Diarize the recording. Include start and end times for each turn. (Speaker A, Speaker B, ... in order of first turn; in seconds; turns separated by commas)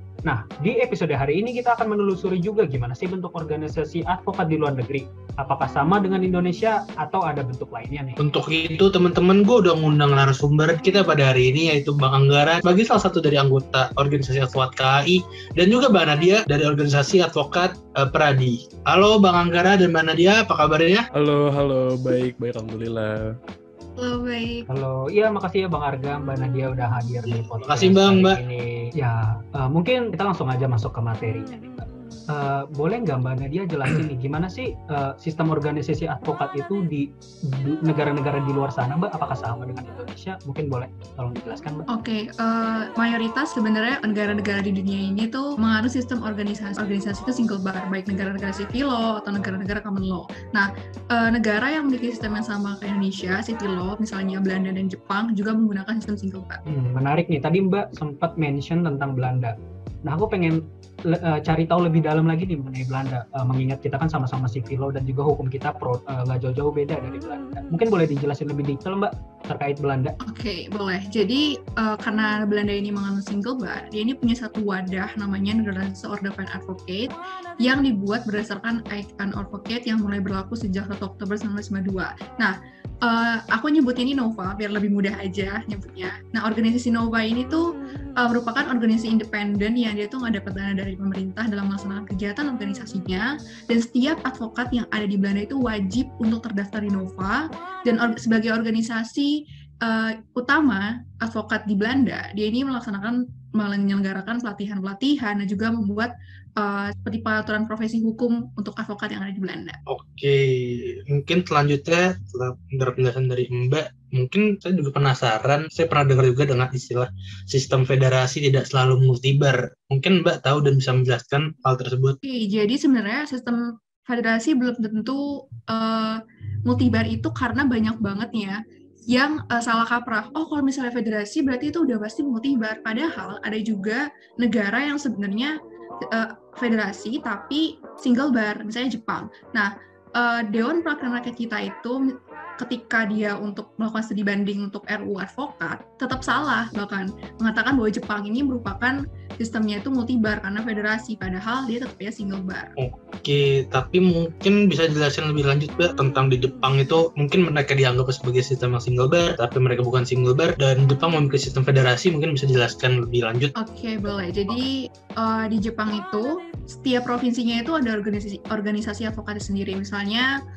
Speaker A: 0.2-8.2, Speaker B: 8.2-21.0, Speaker C: 21.1-23.3, Speaker D: 24.0-24.6, Speaker A: 24.7-41.8, Speaker B: 27.3-28.4, Speaker D: 41.9-56.6, Speaker A: 56.7-70.2, Speaker D: 70.3-77.1, Speaker D: 77.6-82.5, Speaker D: 83.0-87.6, Speaker D: 88.2-109.8, Speaker B: 109.9-122.2, Speaker D: 122.2-128.6, Speaker D: 129.1-135.5, Speaker D: 136.1-142.0, Speaker D: 142.6-152.7, Speaker B: 152.8-163.5, Speaker D: 163.6-170.3